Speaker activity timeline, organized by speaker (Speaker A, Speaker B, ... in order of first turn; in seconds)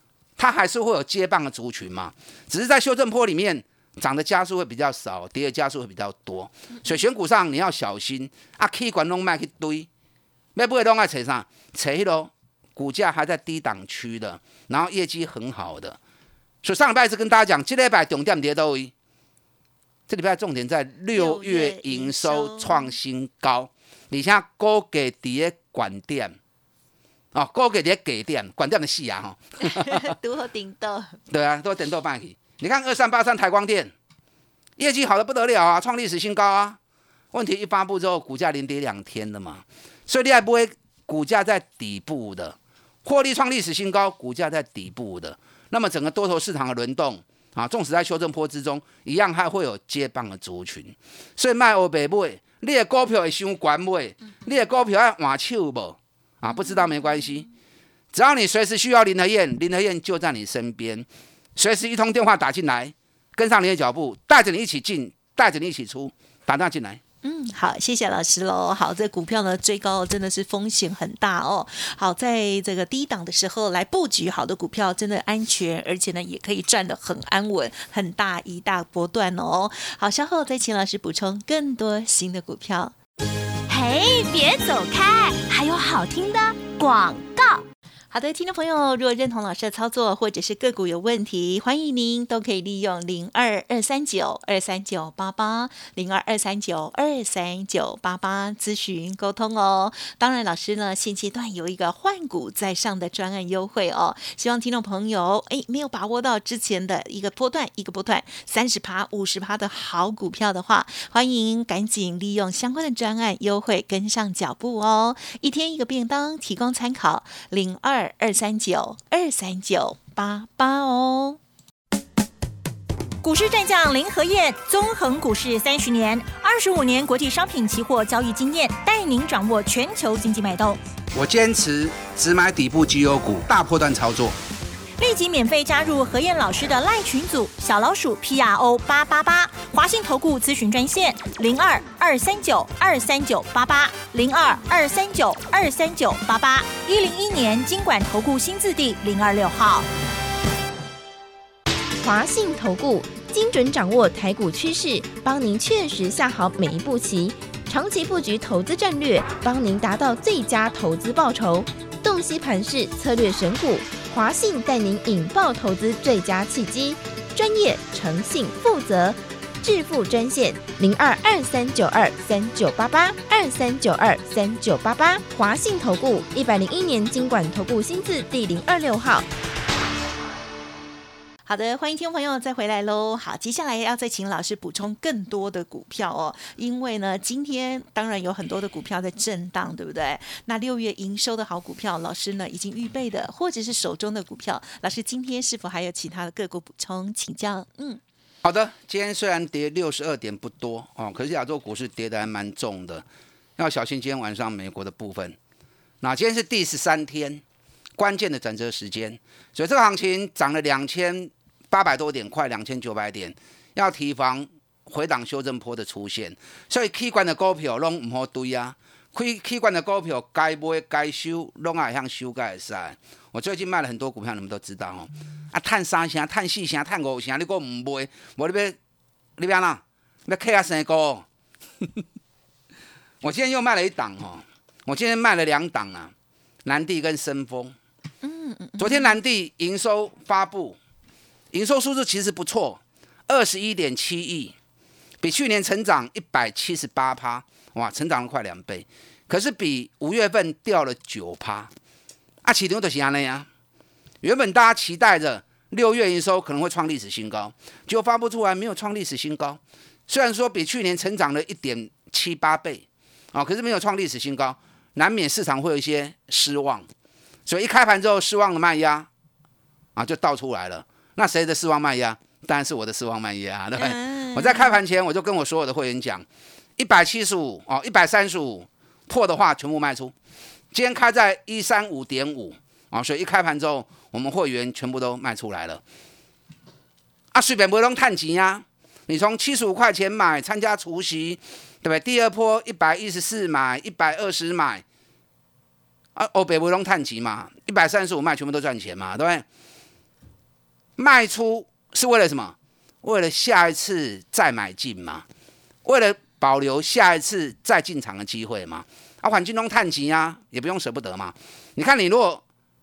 Speaker A: 0.4-9.9, 10.5-16.0, 16.6-18.9, 20.1-26.4, 27.3-30.1, 31.3-33.9, 34.8-36.8, 37.3-57.5, 58.1-67.0, 131.1-134.3, 198.4-203.0, 203.6-205.4, 206.0-207.4, 208.0-228.8, 229.4-231.2, 233.2-236.1, 236.6-237.7, 238.8-240.8, 241.5-244.5, 245.2-251.7, 252.4-253.5, 254.2-266.9, 267.4-269.1, 269.9-276.2, 276.8-280.1, 280.7-285.8, 287.3-294.8, 296.1-299.4, 301.0-305.2, 305.8-312.4
Speaker B: 21.1-22.9, 29.7-31.2, 67.2-82.9, 88.1-121.4, 181.4-198.0, 238.2-239.1, 273.8-274.8
Speaker C: 83.7-87.6, 123.2-130.8, 135.0-149.9
Speaker D: 152.0-179.3